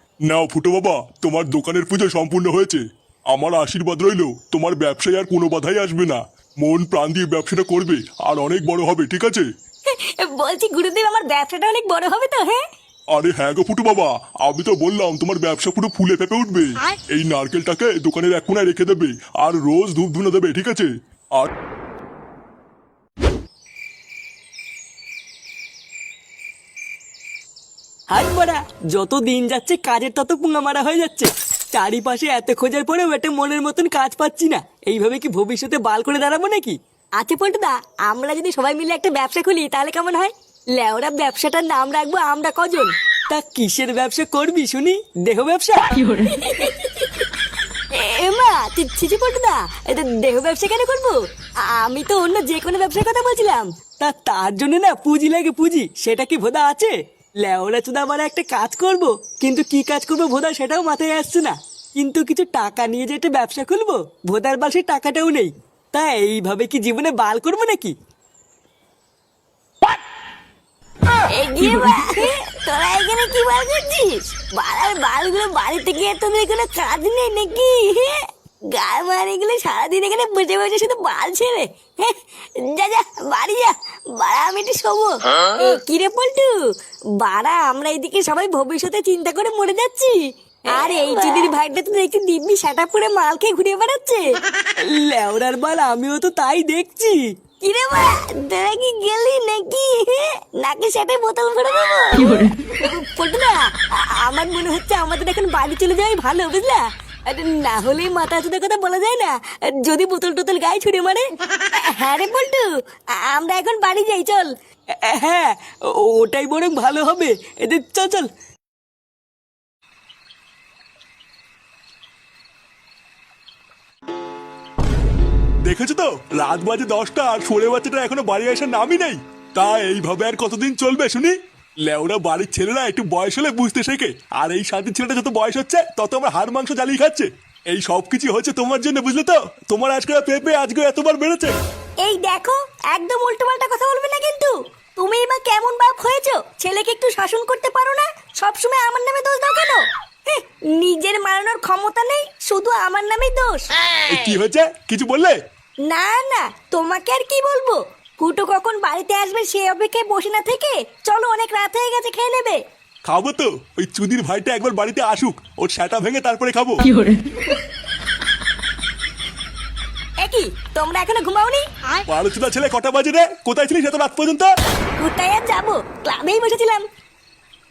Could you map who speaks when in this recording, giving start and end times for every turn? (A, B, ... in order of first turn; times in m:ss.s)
0:00.3-0:09.5 A
0:10.2-0:12.6 B
0:13.1-0:21.5 A
0:28.1-0:36.8 C
0:37.3-0:42.9 B
0:43.3-0:46.1 C
0:46.2-0:46.9 B
0:48.1-0:51.2 B
0:51.7-0:53.7 B
0:54.0-1:08.0 C
1:11.5-1:12.2 B
1:12.8-1:26.6 B
1:27.2-1:34.3 B
1:30.7-1:31.5 C
1:34.8-1:37.2 C
1:37.6-1:43.5 B
1:44.2-1:51.3 B
1:51.8-1:52.7 B
1:53.2-1:54.5 B
1:55.0-1:58.3 C
2:05.6-2:21.6 A
2:22.0-2:33.7 B
2:34.1-2:35.4 A
2:35.9-2:42.6 B
2:43.1-2:47.0 A
2:50.2-2:51.7 B
2:52.1-2:54.5 A
2:55.0-2:56.9 B